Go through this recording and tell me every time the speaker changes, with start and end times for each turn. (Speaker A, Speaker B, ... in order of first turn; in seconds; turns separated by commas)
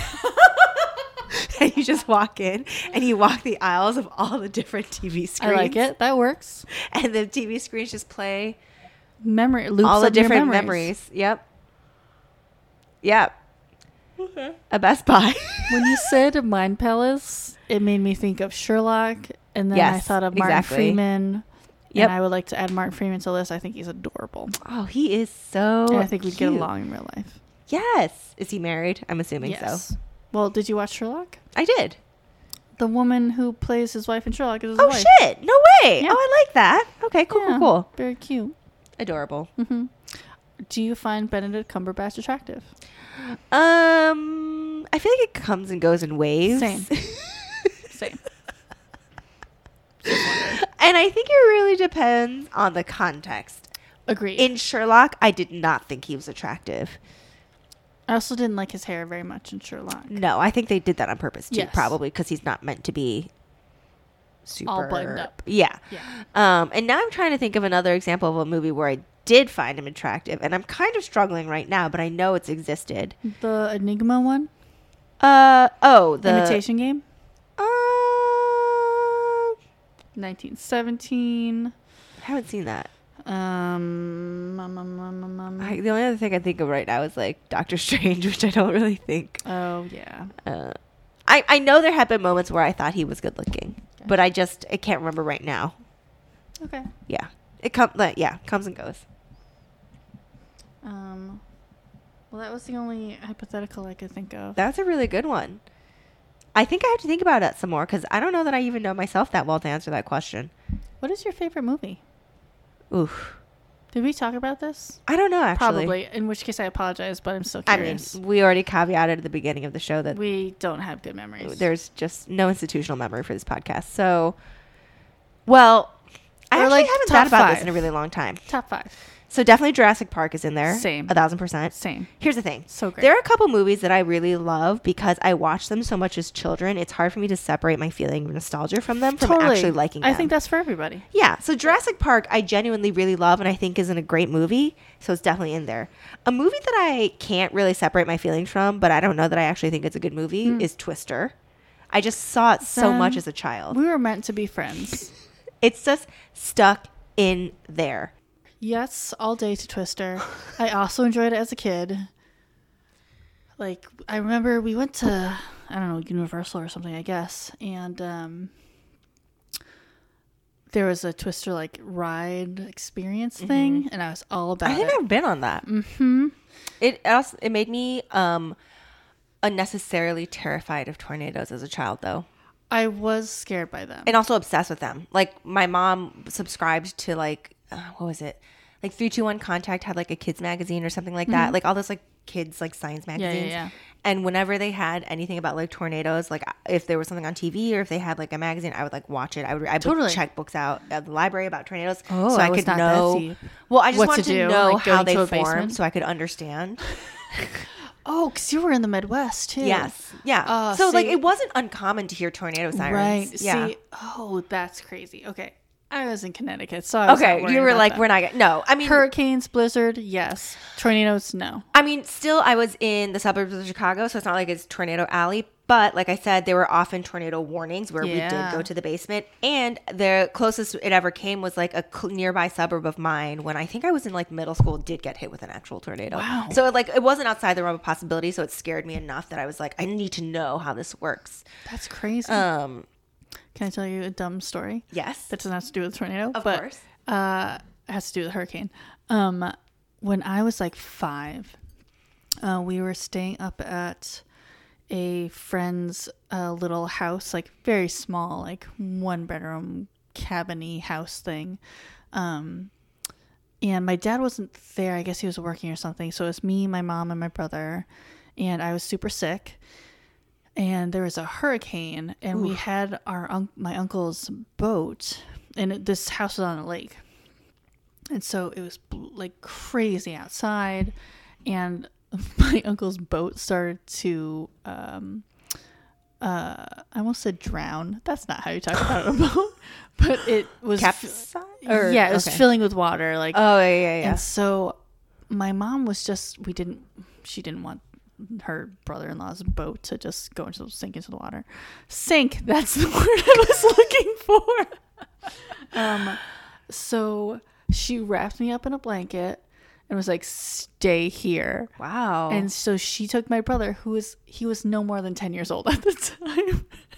Speaker A: 0.4-5.8, Speaker B: 5.4-6.7, Speaker A: 6.7-8.6, Speaker B: 9.2-10.9, Speaker A: 9.8-11.4, Speaker A: 13.0-13.3, Speaker A: 14.7-16.1, Speaker B: 15.7-24.6, Speaker A: 19.7-21.0, Speaker A: 24.6-26.7, Speaker B: 25.9-27.4, Speaker A: 27.7-29.8, Speaker B: 29.4-31.4, Speaker A: 31.5-32.0, Speaker B: 32.8-35.2, Speaker A: 34.8-37.9, Speaker B: 37.3-38.5, Speaker A: 39.0-39.5, Speaker B: 39.6-40.1, Speaker B: 40.7-42.7, Speaker A: 43.2-47.8, Speaker B: 46.5-46.9, Speaker B: 47.9-48.2, Speaker B: 50.0-50.6, Speaker A: 50.3-53.7, Speaker B: 54.1-54.5, Speaker A: 54.4-57.0, Speaker B: 58.1-60.2, Speaker A: 60.1-63.3, Speaker B: 61.5-62.0, Speaker A: 64.5-73.2, Speaker B: 64.7-65.4, Speaker B: 73.2-74.5, Speaker A: 75.2-76.6, Speaker B: 76.2-77.0, Speaker A: 77.6-79.5, Speaker B: 80.2-81.7, Speaker A: 82.2-82.9, Speaker B: 83.2-85.8, Speaker A: 85.6-89.4, Speaker B: 89.5-90.3, Speaker A: 90.4-95.8, Speaker B: 96.6-96.9, Speaker A: 97.1-99.0, Speaker B: 100.8-101.4, Speaker B: 102.3-104.6, Speaker A: 104.6-105.6, Speaker A: 106.5-110.5, Speaker B: 111.0-112.0, Speaker A: 112.9-113.4, Speaker B: 113.9-115.0, Speaker A: 115.1-116.0, Speaker B: 115.5-118.2, Speaker A: 117.7-120.2, Speaker B: 120.1-121.7, Speaker A: 121.4-124.4, Speaker A: 125.5-126.0, Speaker A: 126.5-128.4, Speaker B: 126.5-127.9, Speaker B: 128.5-128.9, Speaker A: 129.3-140.3, Speaker B: 130.7-131.2, Speaker B: 131.7-132.1, Speaker B: 132.7-133.1, Speaker B: 139.2-141.1, Speaker A: 141.1-151.3, Speaker B: 150.4-150.7, Speaker A: 151.9-153.8, Speaker B: 152.6-155.1, Speaker A: 155.6-158.1, Speaker B: 158.6-162.1, Speaker B: 163.6-168.5, Speaker B: 170.7-175.0, Speaker A: 173.4-173.8, Speaker A: 174.7-175.6, Speaker B: 175.6-176.3, Speaker A: 176.8-178.6, Speaker A: 179.4-182.3, Speaker B: 182.7-184.2, Speaker A: 184.1-206.8, Speaker B: 191.3-191.6, Speaker B: 193.2-193.7, Speaker B: 199.8-200.2, Speaker B: 202.1-205.8, Speaker A: 207.3-207.6, Speaker B: 208.1-211.2, Speaker A: 209.6-213.7, Speaker B: 212.7-218.1, Speaker A: 217.1-219.1, Speaker B: 218.8-221.7, Speaker A: 221.7-241.4, Speaker B: 228.0-228.7, Speaker B: 236.1-236.6, Speaker B: 241.7-242.5, Speaker A: 242.2-242.9, Speaker B: 243.6-251.6, Speaker A: 244.9-245.3, Speaker A: 246.3-246.8, Speaker B: 252.4-254.2, Speaker B: 254.9-261.6, Speaker B: 262.1-262.7, Speaker B: 263.6-267.9, Speaker B: 268.4-269.6, Speaker B: 270.6-277.0, Speaker A: 272.3-272.6, Speaker B: 278.1-280.9, Speaker B: 281.5-285.3, Speaker B: 286.2-294.8, Speaker A: 290.8-292.5, Speaker A: 293.3-294.2, Speaker B: 295.3-304.8, Speaker B: 305.7-311.7, Speaker A: 311.8-312.5, Speaker B: 312.3-316.7